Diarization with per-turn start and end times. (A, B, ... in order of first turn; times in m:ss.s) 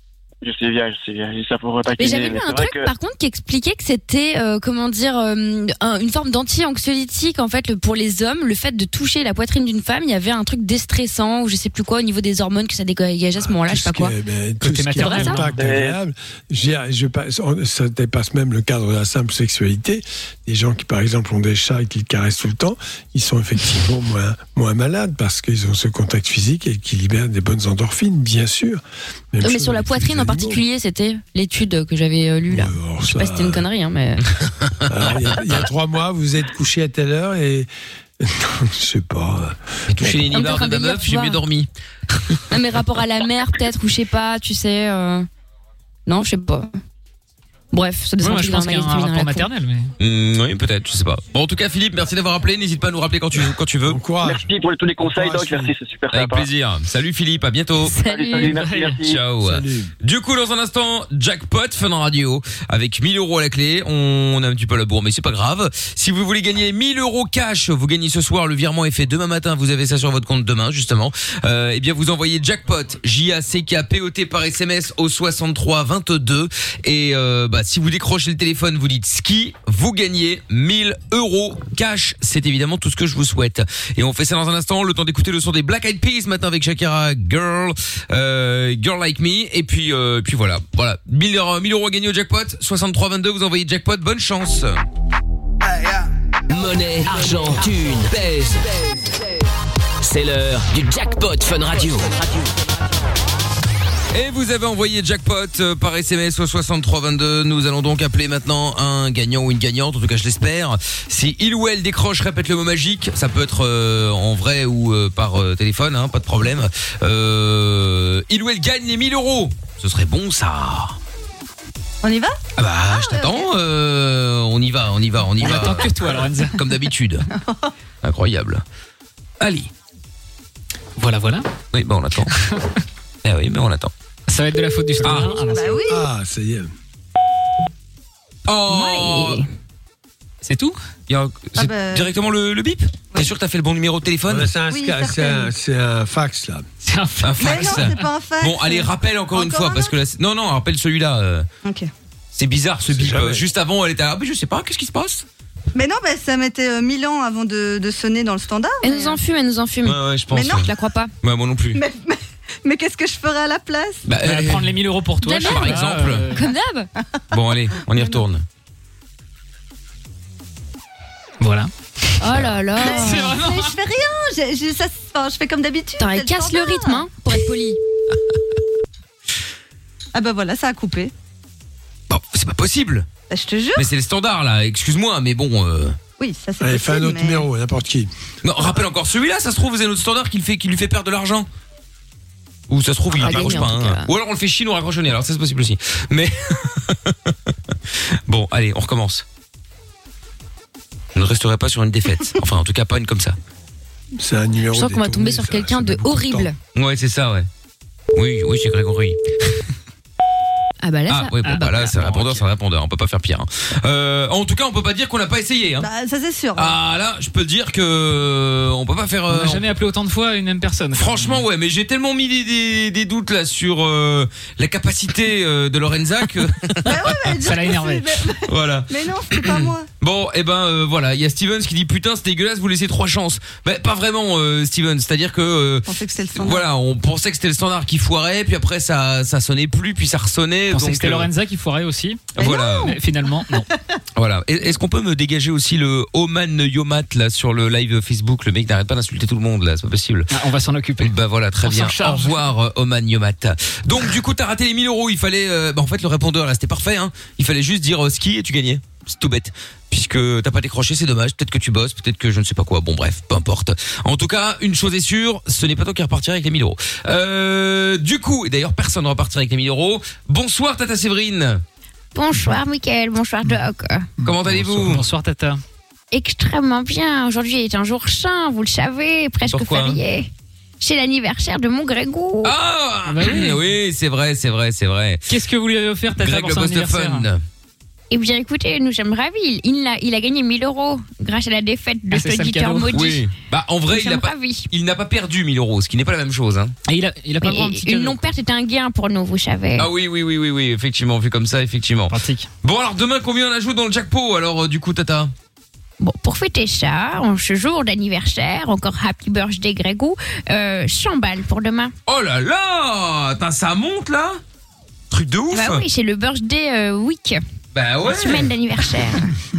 0:00.4-0:02.9 A
0:02.0-0:14.1 B
0:13.4-0:28.8 C
0:14.6-0:15.6 D
0:14.9-0:15.4 B
0:15.6-0:16.0 A
0:29.3-0:30.6 C
0:29.4-0:34.2 B
0:32.5-0:33.7 C
0:34.9-0:37.7 C
0:38.2-0:40.4 C
0:39.9-0:41.7 E
0:40.3-0:41.4 B
0:42.5-0:45.3 B
0:46.1-0:46.7 B
0:47.7-0:49.5 B
0:48.2-0:49.9 D
0:50.0-0:54.0 E
0:53.8-0:54.5 C
0:54.2-0:56.5 A
0:55.0-0:55.7 C
0:56.1-0:58.0 E
0:57.8-0:58.6 B
0:58.0-0:59.2 A
0:58.4-0:58.9 D
0:59.0-1:34.8 E
0:59.4-0:59.9 C
1:36.5-1:39.0 F
1:40.0-1:42.5 F
1:44.1-2:01.0 E
2:02.0-2:03.5 G
2:02.6-2:07.3 E
2:05.4-2:06.6 D
2:07.3-2:07.7 G
2:08.0-2:08.6 E
2:09.4-2:09.7 E
2:11.0-2:11.5 D
2:11.7-2:12.3 E
2:13.2-2:13.9 E
2:14.3-2:15.8 D
2:15.0-2:15.5 E
2:15.5-2:16.0 G
2:15.8-2:16.7 C
2:18.5-2:19.4 E
2:18.7-2:19.5 B
2:20.4-2:20.8 D
2:21.1-2:24.5 E
2:21.5-2:22.1 G
2:24.3-2:26.7 C
2:24.7-2:25.5 G
2:26.8-2:27.4 D
2:27.2-2:31.5 E
2:27.4-2:29.9 G
2:31.6-2:31.9 G
2:32.3-2:35.2 E
2:32.9-2:33.5 C
2:35.7-2:39.2 G
2:38.8-2:40.0 B
2:39.8-2:40.7 E
2:40.3-2:40.7 G
2:40.5-2:41.1 B
2:41.2-2:41.8 E
2:41.7-2:44.0 G
2:44.0-2:44.8 E
2:44.2-2:46.4 D
2:45.2-2:46.9 B
2:45.3-2:46.3 E
2:47.3-2:48.4 E
2:47.9-2:48.2 G
2:51.4-2:51.7 D
2:52.2-2:53.3 B
2:52.8-2:57.1 G
2:52.9-2:53.7 D
2:56.0-2:57.8 B
3:00.1-3:01.1 G
3:02.1-3:03.1 E
3:03.3-3:03.9 G
3:03.8-3:06.0 E
3:06.2-3:07.5 G
3:06.6-3:08.1 C
3:08.4-3:11.5 E
3:12.7-3:17.3 E
3:13.2-3:14.1 B
3:18.3-3:19.2 E
3:21.1-3:23.4 E
3:24.2-3:26.5 C
3:24.7-3:26.6 B
3:26.7-3:27.5 E
3:28.1-3:29.2 E
3:30.8-3:31.9 B
3:31.1-3:35.9 E
3:31.5-3:32.4 D
3:35.8-3:36.8 G
3:36.5-3:39.7 E
3:39.3-3:41.4 D
3:40.9-3:47.5 E
3:46.8-3:49.9 G
3:47.4-3:48.1 D
3:48.4-4:01.3 E
3:55.8-3:56.6 G
4:00.7-4:03.7 D
4:02.3-4:03.0 E
4:02.4-4:02.9 G
4:04.2-4:10.3 E
4:10.3-4:12.5 D
4:11.0-4:31.6 E
4:32.1-4:34.1 B
4:34.2-4:35.0 C
4:34.2-4:35.0 E
4:34.8-4:35.6 D
4:36.1-4:40.3 B
4:39.5-4:40.0 E
4:40.8-4:42.5 B
4:42.4-4:45.3 E
4:43.1-4:43.6 D
4:45.3-4:47.3 D
4:46.2-4:47.4 E
4:48.1-4:53.2 B
4:52.1-4:53.0 D
4:52.9-4:56.7 E
4:53.9-4:54.7 B
4:56.9-4:58.4 D
4:57.4-4:59.9 B
4:59.8-5:05.3 E
5:02.1-5:02.5 D
5:06.0-5:11.9 B
5:12.0-5:14.4 E
5:15.1-5:15.8 E
5:15.5-5:17.4 B
5:17.7-5:18.5 E
5:18.0-5:19.3 B